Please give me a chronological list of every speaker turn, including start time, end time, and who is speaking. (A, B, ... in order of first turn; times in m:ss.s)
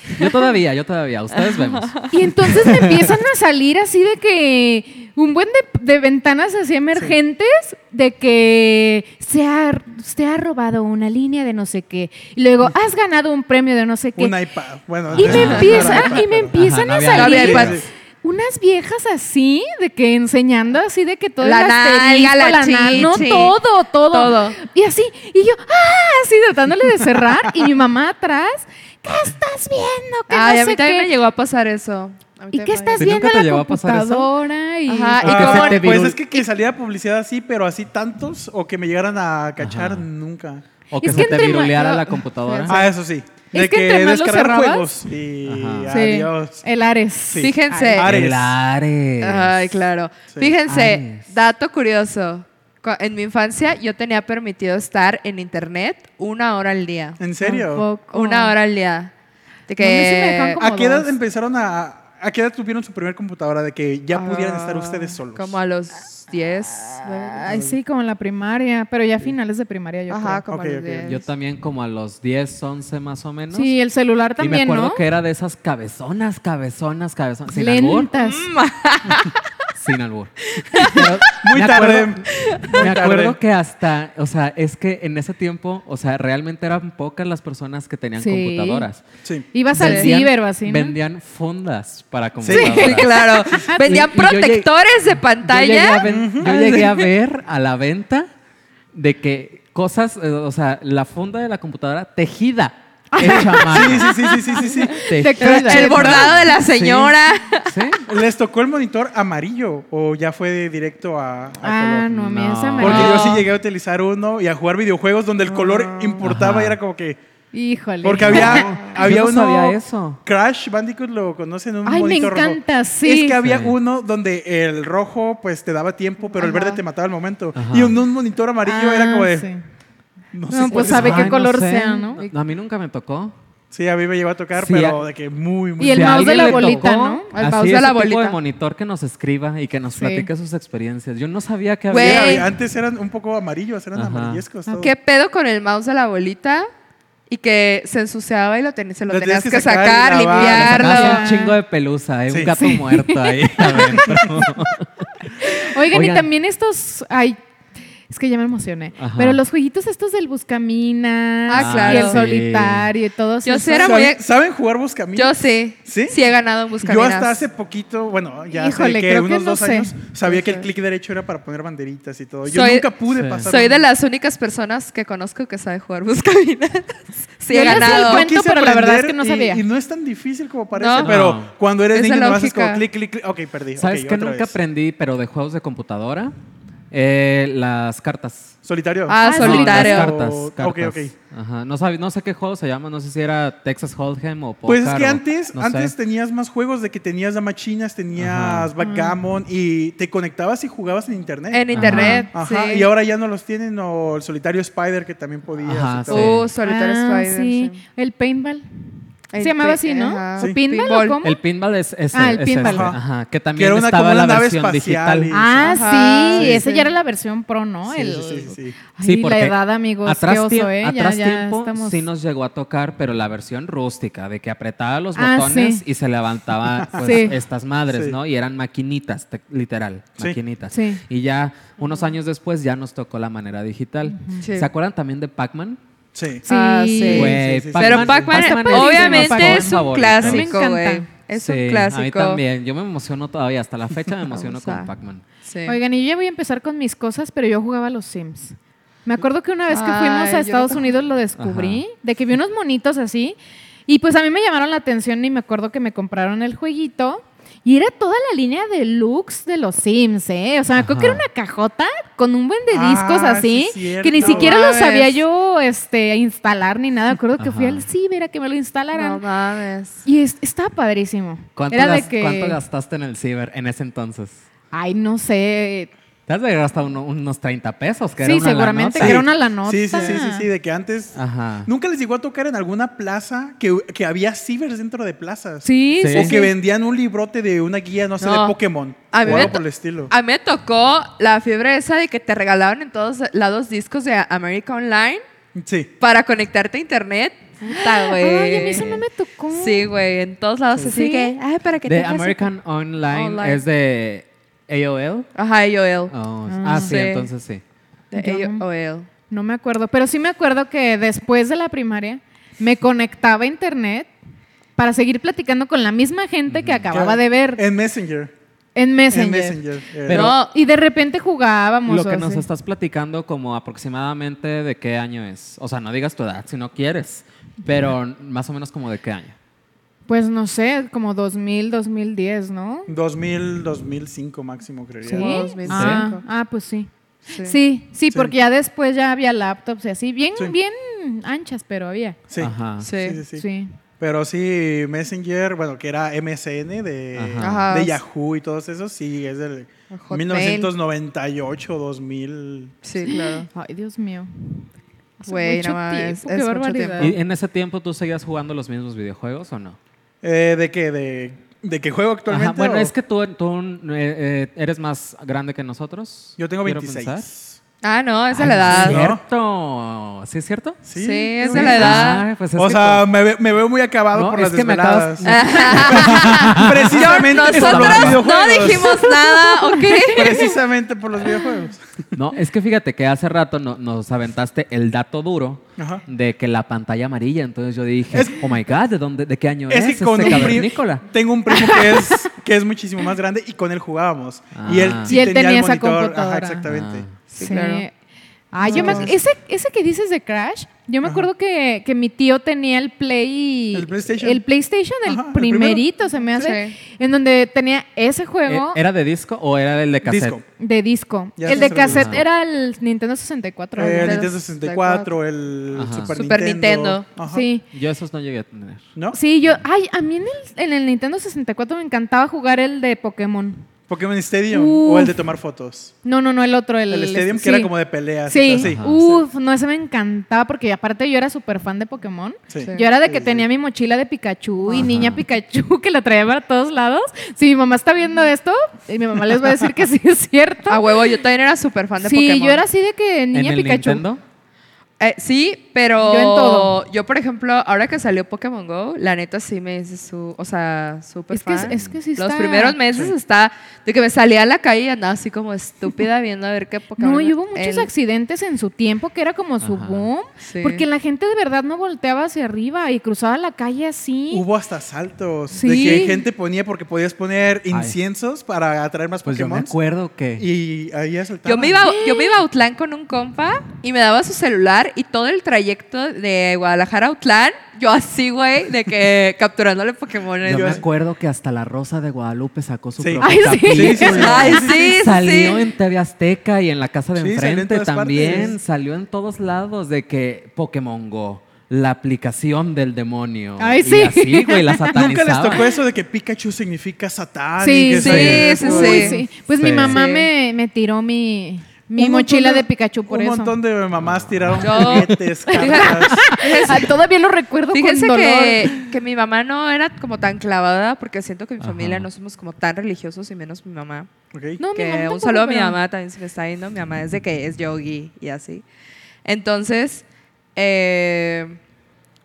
0:00.2-0:03.1 A
0:01.3-0:02.1 B
0:02.1-0:14.4 C
0:14.2-0:16.6 D
0:15.1-0:17.9 A
0:15.2-0:31.1 C
0:15.3-0:16.0 B
0:17.1-0:17.8 B
0:17.4-0:17.8 D
0:21.4-0:23.6 B
0:24.1-0:24.6 B
0:30.3-0:33.1 B
0:32.5-0:35.2 C
0:33.0-0:34.3 A
0:34.9-0:36.1 B
0:35.2-0:36.2 A
0:35.2-0:40.6 D
0:39.6-0:40.0 A
0:40.9-0:42.9 A
0:41.0-0:42.2 C
0:42.4-0:42.8 B
0:42.7-0:46.6 D
0:43.5-0:44.9 C
0:45.4-0:45.9 A
0:45.9-0:48.0 C
0:47.3-0:48.6 D
0:47.3-0:48.1 B
0:48.0-0:49.8 A
0:49.2-0:57.2 B
0:50.6-0:51.2 A
0:57.2-0:57.9 D
0:57.4-0:58.5 C
0:58.1-0:59.1 B
0:59.7-1:00.6 B
0:59.8-1:01.1 C
1:00.6-1:05.6 D
1:04.1-1:07.4 B
1:07.2-1:10.4 C
1:07.5-1:07.8 D
1:10.1-1:11.2 B
1:10.5-1:11.1 D
1:11.0-1:13.7 A
1:13.5-1:15.0 C
1:14.4-1:18.1 A
1:17.5-1:18.5 C
1:18.2-1:19.5 B
1:19.8-1:29.0 A
1:20.6-1:21.1 B
1:21.4-1:23.4 D
1:22.3-1:22.8 B
1:28.2-1:28.9 C
1:29.5-1:31.0 C
1:29.7-1:34.7 A
1:29.8-1:30.1 B
1:32.4-1:33.0 D
1:32.5-1:33.0 C
1:32.6-1:37.1 B
1:33.6-1:34.0 C
1:35.4-1:38.3 A
1:36.0-1:36.8 D
1:38.9-1:44.2 A
1:43.1-1:46.5 C
1:43.4-1:45.0 D
1:45.0-1:47.1 A
1:45.4-1:47.8 B
1:47.6-1:48.0 A
1:48.1-1:52.2 D
1:51.6-1:53.4 C
1:52.1-1:53.4 A
1:52.8-1:57.2 D
1:52.8-1:53.4 B
1:55.5-1:56.2 B
1:56.2-1:56.8 A
1:57.5-1:58.7 C
1:58.0-2:09.5 D
1:58.3-2:00.2 A
2:01.8-2:03.4 C
2:03.4-2:03.7 A
2:06.4-2:06.8 C
2:07.5-2:08.0 A
2:08.6-2:09.6 C
2:10.3-2:11.4 D
2:10.5-2:12.2 C
2:10.7-2:13.3 A
2:13.7-2:16.8 D
2:14.6-2:15.0 A
2:15.8-2:17.3 C
2:15.8-2:22.5 A
2:17.3-2:18.4 B
2:19.9-2:20.3 C
2:21.9-2:22.5 B
2:22.0-2:24.9 D
2:23.9-2:24.4 A
2:24.7-2:26.7 B
2:27.3-2:31.3 B
2:29.1-2:30.9 D
2:30.3-2:36.3 A
2:30.5-2:31.6 C
2:32.3-2:32.6 D
2:32.6-2:34.0 C
2:34.0-2:34.4 D
2:35.4-2:37.4 C
2:38.1-2:44.0 C
2:39.0-2:39.4 A
2:41.5-2:42.2 B
2:41.6-2:42.9 A
2:43.4-2:44.2 B
2:43.8-2:46.2 D
2:45.1-2:47.4 B
2:46.8-2:53.8 D
2:48.5-2:49.9 C
2:50.2-2:50.6 B
2:52.5-2:58.3 B
2:53.1-2:53.5 A
2:57.5-2:59.6 C
2:57.6-3:04.6 D
3:00.7-3:01.2 B
3:01.0-3:01.5 A
3:01.9-3:02.8 B
3:03.8-3:06.3 A
3:06.9-3:08.6 A
3:08.6-3:11.1 D
3:09.1-3:10.2 B
3:09.2-3:09.9 C
3:09.3-3:15.9 A
3:14.6-3:21.7 D
3:18.2-3:18.7 A
3:18.8-3:19.2 C
3:21.5-3:22.9 B
3:21.7-3:22.2 A
3:21.8-3:22.3 C
3:22.3-3:26.4 D
3:25.6-3:26.5 A
3:26.1-3:27.8 B
3:26.6-3:31.4 C
3:29.3-3:31.2 B
3:31.2-3:35.3 A
3:32.1-3:32.9 C
3:32.6-3:33.0 D
3:33.5-3:35.8 D
3:35.3-3:42.0 C
3:35.6-3:36.9 B
3:36.3-3:36.6 D
3:37.8-3:38.8 D
3:39.0-3:55.8 A
3:45.1-3:45.8 C
3:47.0-3:47.4 C
3:47.9-3:48.2 D
3:50.7-3:51.0 C
3:54.1-3:54.4 C
3:54.4-3:54.7 B
3:56.1-3:56.4 D
3:56.4-3:57.4 C
3:56.5-4:02.4 B
3:57.1-4:00.5 A
3:57.1-3:58.3 D
3:58.3-4:01.1 C
4:01.3-4:05.2 A
4:04.3-4:04.9 B
4:05.4-4:05.8 B
4:05.6-4:29.2 C
4:09.7-4:10.9 B
4:11.4-4:11.8 A
4:20.8-4:21.2 A
4:22.7-4:24.6 D
4:24.2-4:25.2 B
4:27.4-4:27.8 A
4:28.9-4:30.0 B
4:30.0-4:32.6 C
4:31.6-4:34.4 A
4:34.7-4:35.9 C
4:36.3-4:39.2 A
4:38.2-4:40.5 C
4:39.0-4:50.1 D
4:41.1-4:41.7 A
4:45.6-4:46.5 C
4:46.0-4:46.4 A
4:48.2-4:48.6 B
4:49.1-4:55.2 B
4:55.5-4:55.9 D
4:56.0-5:02.5 B
4:57.6-4:59.9 C
5:00.9-5:01.3 C
5:01.8-5:05.3 A
5:03.1-5:03.6 B
5:05.3-5:07.3 B
5:06.1-5:07.6 A
5:06.5-5:07.0 C
5:08.1-5:09.1 B
5:08.1-5:08.6 C
5:09.3-5:14.1 C
5:14.8-5:17.6 C
5:16.5-5:16.9 A
5:16.9-5:18.3 D
5:18.7-5:19.6 C
5:19.1-5:20.3 D
5:20.1-5:20.4 A
5:20.1-5:20.5 B
5:20.2-5:22.4 C
5:21.8-5:29.4 A
5:30.1-5:32.9 C
5:32.9-5:35.5 D
5:35.1-5:36.2 B
5:35.1-5:36.9 C
5:35.7-5:36.0 A
5:37.3-5:37.6 B
5:37.4-5:42.2 C
5:42.3-5:43.4 D
5:42.4-5:42.9 A
5:42.8-5:43.2 B
5:43.3-5:43.7 C
5:44.0-5:52.7 D
5:47.1-5:47.7 A
5:47.4-5:48.0 B
5:49.9-5:50.7 B
5:52.8-5:53.5 B
5:53.0-5:54.7 C
5:55.2-5:57.2 C
5:55.2-5:57.1 B
5:57.0-5:59.8 A
6:00.2-6:02.9 D
6:02.3-6:07.2 A
6:06.4-6:07.6 D
6:07.8-6:09.0 B
6:08.3-6:10.8 A
6:08.6-6:09.2 D
6:10.8-6:19.0 D
6:10.9-6:12.2 B
6:11.4-6:13.0 A
6:14.1-6:18.2 A
6:15.2-6:20.5 B
6:19.0-6:20.5 C
6:20.1-6:22.1 D
6:22.1-6:31.0 A
6:25.8-6:26.0 D
6:28.1-6:28.4 D
6:29.7-6:37.0 D
6:30.2-6:30.5 C
6:31.5-6:32.2 C
6:34.5-6:35.2 A
6:35.1-6:36.6 C
6:36.6-6:37.1 A
6:37.3-6:37.8 B
6:37.4-6:37.9 C
6:38.5-6:48.8 C
6:38.6-6:39.2 D
6:38.7-6:39.1 B
6:41.0-6:41.3 D
6:43.7-6:44.4 D
6:45.0-6:45.8 D
6:46.4-6:46.7 B
6:48.5-6:50.4 A
6:50.0-6:50.4 D
6:50.6-6:55.0 C
6:51.4-6:52.2 D
6:51.5-6:52.2 A
6:53.8-6:57.4 D
6:54.0-6:54.7 B
6:55.7-6:56.1 A
6:56.1-6:57.0 B
6:57.2-6:57.6 C
6:57.7-6:58.8 A
6:59.1-7:03.7 C
7:03.9-7:05.9 D
7:04.5-7:05.2 C
7:06.0-7:07.7 C
7:06.9-7:09.2 D
7:08.3-7:20.8 C
7:08.6-7:09.0 A
7:12.5-7:13.4 D
7:12.6-7:12.8 B
7:14.7-7:15.2 A
7:20.7-7:22.6 B
7:22.0-7:24.0 C
7:23.3-7:24.2 A
7:25.0-7:37.9 B
7:26.0-7:26.8 C
7:31.3-7:32.8 C
7:31.6-7:32.0 A
7:37.0-7:44.4 C
7:39.6-7:40.1 A
7:40.4-7:40.8 B
7:44.3-7:49.7 D
7:45.5-7:46.2 C
7:45.6-7:46.1 B
7:49.2-7:50.4 A
7:50.4-7:51.9 D
7:51.4-8:00.8 B
7:51.8-7:52.4 C
8:00.4-8:15.7 A
8:00.5-8:00.8 D
8:03.0-8:04.7 D
8:03.2-8:04.7 C
8:04.0-8:05.7 B
8:07.2-8:08.6 D
8:13.6-8:15.0 C
8:14.9-8:19.2 D
8:17.6-8:23.6 C
8:17.9-8:19.2 B
8:18.0-8:18.6 A
8:19.6-8:20.0 A
8:19.8-8:20.3 B
8:22.0-8:26.3 D
8:24.0-8:25.1 A
8:24.6-8:26.9 B
8:25.5-8:28.8 C
8:27.7-8:34.1 B
8:31.6-8:32.1 A
8:34.3-8:34.6 D
8:34.6-8:35.8 C
8:34.7-8:38.6 B
8:39.2-8:40.0 B
8:40.6-8:41.6 B